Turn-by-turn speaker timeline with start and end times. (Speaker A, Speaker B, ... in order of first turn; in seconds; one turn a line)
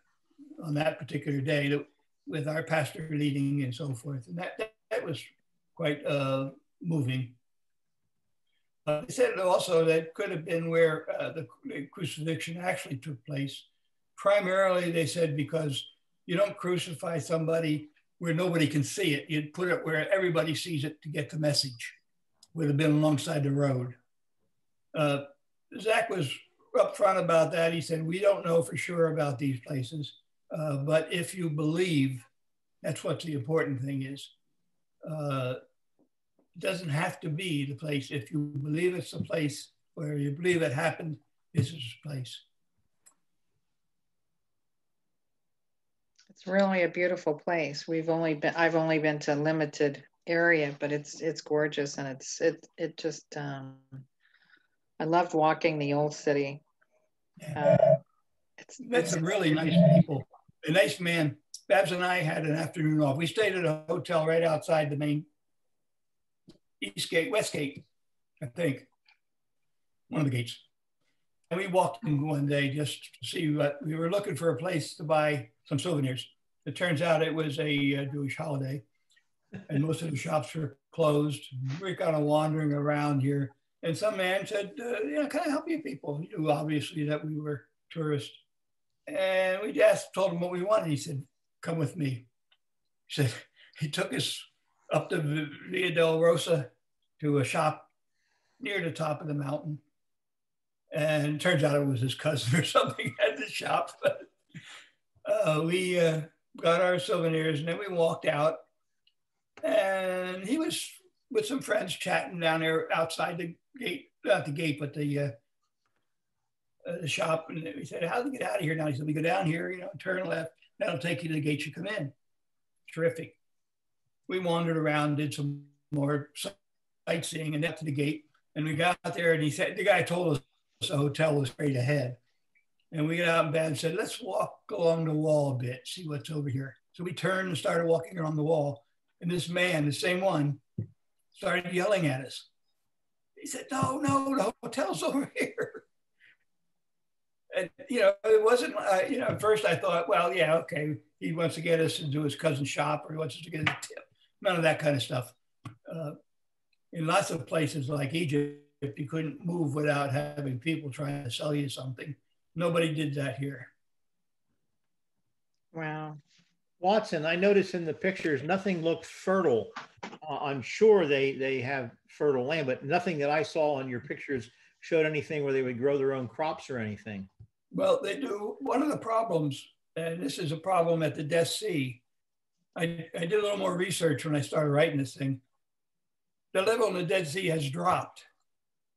Speaker A: 0.6-7.4
Speaker A: 8.9-22.0
Speaker A: 22.5-24.0
Speaker A: 24.9-32.3
Speaker A: 32.8-34.3
Speaker A: 35.0-35.6
Speaker A: 36.6-42.4
Speaker B: 46.3-54.0
Speaker B: 55.0-56.6
Speaker A: 57.4-58.0
Speaker B: 57.6-58.0
Speaker B: 58.6-59.9
Speaker A: 58.8-65.3
Speaker A: 66.8-67.8
Speaker A: 68.4-68.9
Speaker A: 70.1-70.6
Speaker A: 71.5-78.8
Speaker A: 79.7-88.4
Speaker A: 89.1-92.3
Speaker A: 93.1-97.9
Speaker A: 98.6-99.8
Speaker A: 100.9-104.3
Speaker A: 105.2-108.7
Speaker A: 109.6-115.3
Speaker A: 116.8-122.1
Speaker A: 122.9-123.4
Speaker A: 124.3-126.5
Speaker A: 127.1-132.2
Speaker A: 132.9-140.6
Speaker A: 141.3-142.5
Speaker A: 143.4-145.8
Speaker A: 147.5-155.3
Speaker A: 155.9-156.2
Speaker A: 156.9-163.7
Speaker B: 165.7-166.2
Speaker C: 166.8-177.3
Speaker A: 177.7-182.0
Speaker A: 182.8-185.4
Speaker A: 186.5-188.3